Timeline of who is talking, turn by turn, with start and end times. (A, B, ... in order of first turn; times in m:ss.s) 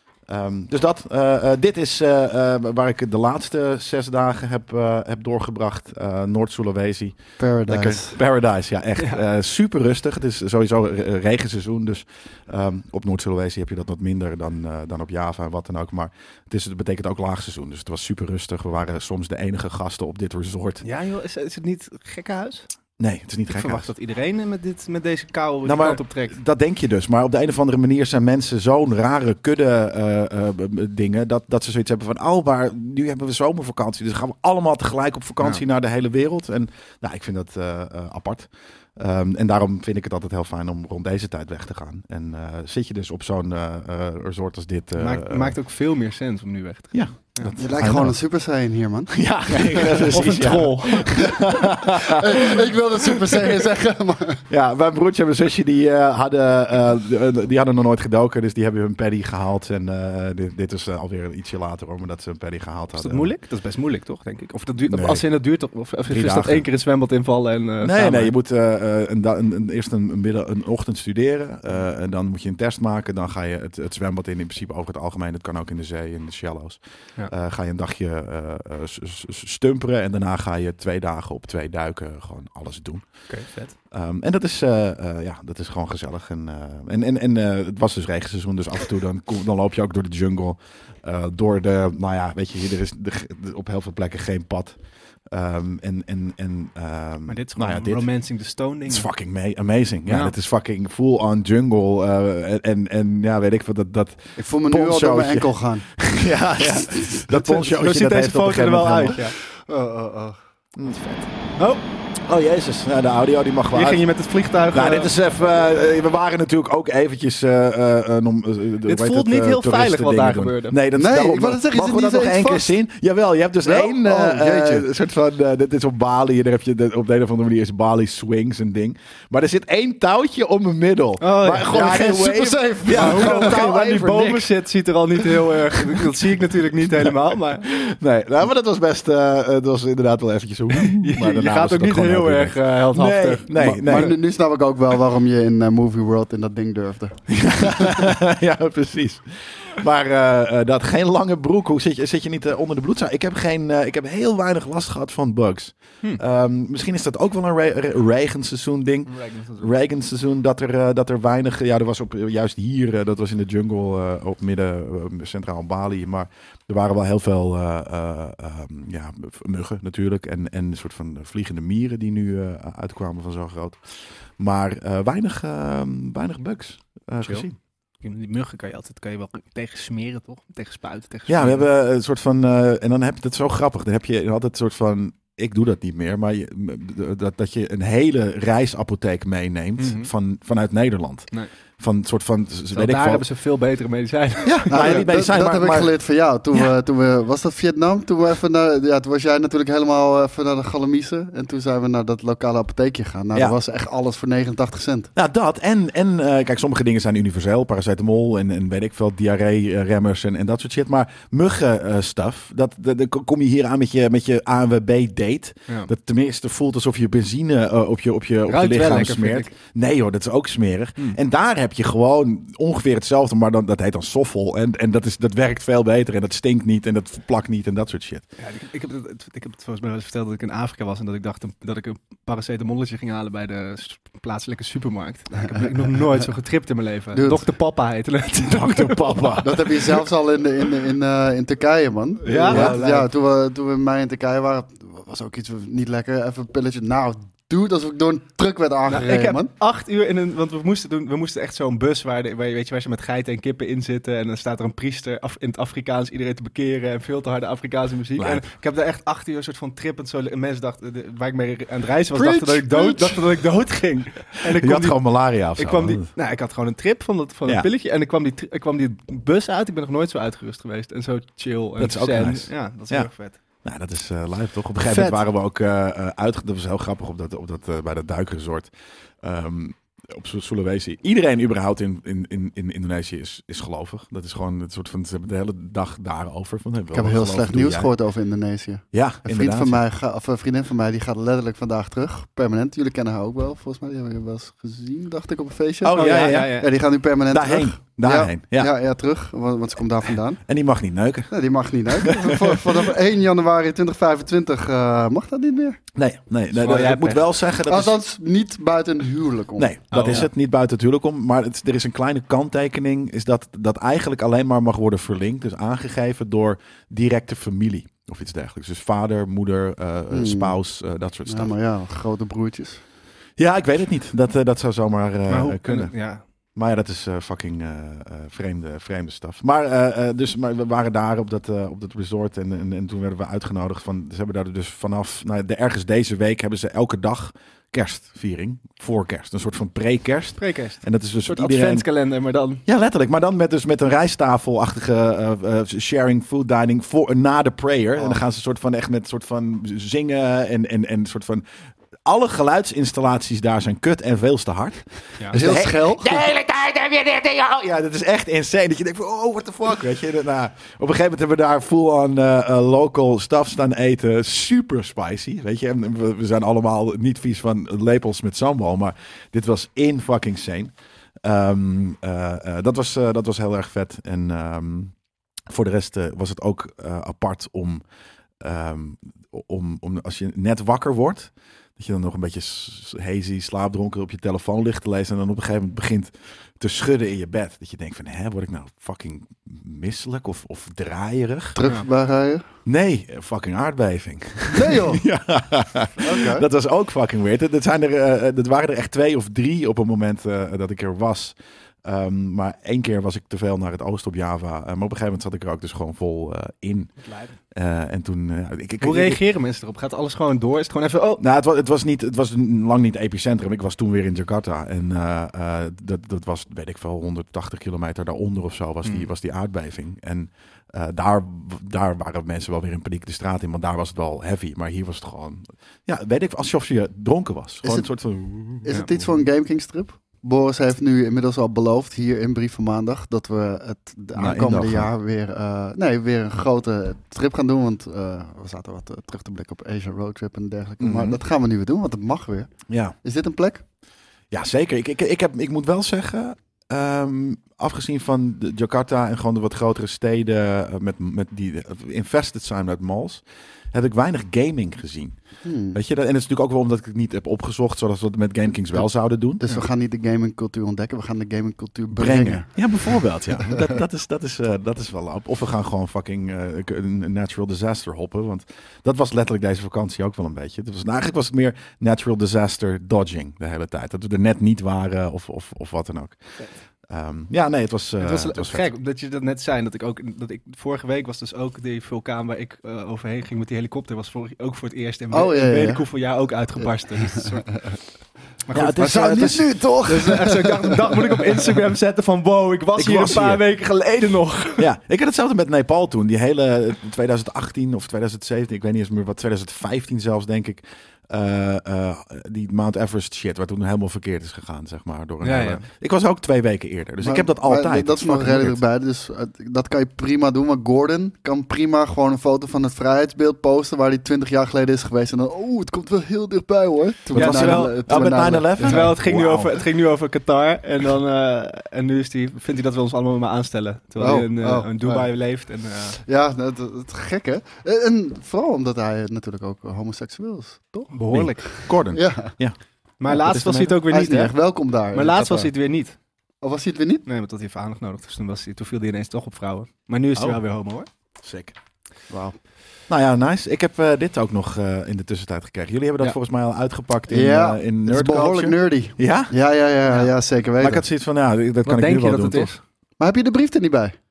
0:00.3-0:20.8 A
0:07.4-0:08.2 B
0:20.8-0:22.7 C
0:23.0-0:23.9 A
0:23.5-0:26.4 C
0:25.6-0:45.6 A
0:45.0-0:47.6 C
0:46.9-0:48.2 A
0:47.6-0:49.1 B
0:49.1-0:52.7 A
0:49.6-0:51.2 C
0:51.1-0:54.4 B
0:54.5-1:03.3 A
1:03.0-1:08.3 C
1:04.9-1:05.2 A
1:06.1-1:06.7 A
1:07.8-1:23.0 A
1:23.3-1:23.7 C
1:23.9-1:34.8 A
1:35.3-1:38.1 A
1:37.3-1:39.1 C
1:38.9-1:49.2 A
1:40.1-1:40.3 C
1:44.4-1:45.9 B
1:46.9-1:47.3 B
1:47.3-1:49.4 C
1:49.4-1:50.4 B
1:50.8-1:51.3 A
1:51.6-1:51.8 C
1:52.2-1:54.0 A
1:53.7-1:55.1 C
1:54.7-2:14.5 A
1:58.9-2:00.8 C
2:00.9-2:02.8 B
2:03.6-2:04.9 B
2:11.2-2:17.7 C
2:11.7-2:13.6 B
2:15.4-2:16.1 A
2:16.8-2:24.2 A
2:20.8-2:24.1 C
2:23.6-2:28.2 B
2:27.3-2:53.8 A
2:39.1-2:39.7 C
2:54.4-2:57.6 A
2:58.0-3:01.6 C
3:01.3-3:13.2 A
3:09.8-3:10.1 C
3:12.7-3:15.1 C
3:14.4-3:15.9 A
3:14.7-3:25.1 B
3:25.2-3:48.3 A
3:38.5-3:39.5 C
3:48.4-3:59.6 C
3:55.4-3:55.8 B
3:57.1-3:57.4 B
3:58.4-4:00.0 A
3:59.4-4:09.5 B
4:02.2-4:02.8 C
4:02.3-4:03.1 A
4:08.9-4:33.4 C
4:18.2-4:18.5 A
4:22.2-4:22.8 B
4:22.2-4:23.0 A
4:24.5-4:26.1 A
4:31.8-4:33.1 A
4:33.6-4:38.7 A
4:34.8-4:35.2 C
4:39.2-4:47.9 A
4:46.9-5:00.4 B
4:48.9-4:49.8 A
4:55.8-4:56.6 A
4:56.0-4:56.7 C
4:57.3-4:58.7 A
5:00.4-5:01.3 A
5:01.3-5:05.8 B
5:02.1-5:02.6 A
5:06.0-5:08.0 A
5:06.5-5:07.2 C
5:07.7-5:10.2 B
5:09.6-5:21.5 A
5:09.9-5:10.3 C
5:20.1-5:20.6 B
5:21.3-5:22.8 B
5:23.4-5:25.9 A
5:25.3-5:26.2 C
5:26.6-5:41.9 A
5:40.4-5:42.6 C
5:42.7-5:51.4 A
5:52.0-6:14.9 A
5:55.3-5:56.3 B
6:15.5-6:17.8 A
6:18.4-6:31.6 A
6:31.6-6:32.5 B
6:32.7-6:46.9 A
6:34.5-6:35.0 B
6:36.0-6:36.5 B
6:47.1-6:47.3 C
6:47.5-6:49.2 A
6:48.8-6:51.2 C
6:51.2-7:09.1 A
7:08.6-7:22.5 B
7:14.2-7:14.9 A
7:20.8-7:21.2 A
7:22.7-7:23.0 A
7:23.0-7:23.6 B
7:24.3-7:35.2 A
7:35.4-7:35.8 B
7:35.7-7:39.4 A
7:39.4-7:42.5 B
7:42.0-7:56.2 A
7:56.9-7:58.7 A
7:58.0-8:07.7 C
8:05.1-8:05.8 B
8:08.5-8:14.7 C
8:08.5-8:09.5 A
8:08.8-8:11.2 B
8:12.8-8:13.4 A
8:14.6-8:28.6 A
8:25.2-8:25.6 C
8:27.0-8:39.0 B
8:37.1-8:37.8 C
8:37.1-8:39.5 A
8:38.6-8:46.0 C
8:44.0-8:45.1 B
8:46.0-8:52.3 B
8:50.9-8:51.6 C
8:51.1-8:52.6 A
8:53.0-8:54.4 C
8:53.1-8:53.8 A
8:53.9-8:55.5 B
8:54.9-8:56.0 C
8:56.4-8:57.0 B
8:57.1-9:00.9 C
9:01.2-9:01.6 A
9:02.1-9:02.4 B
9:02.9-9:09.3 A
9:07.1-9:10.8 B
9:10.6-9:12.6 A
9:11.6-9:12.6 C
9:13.0-9:14.0 B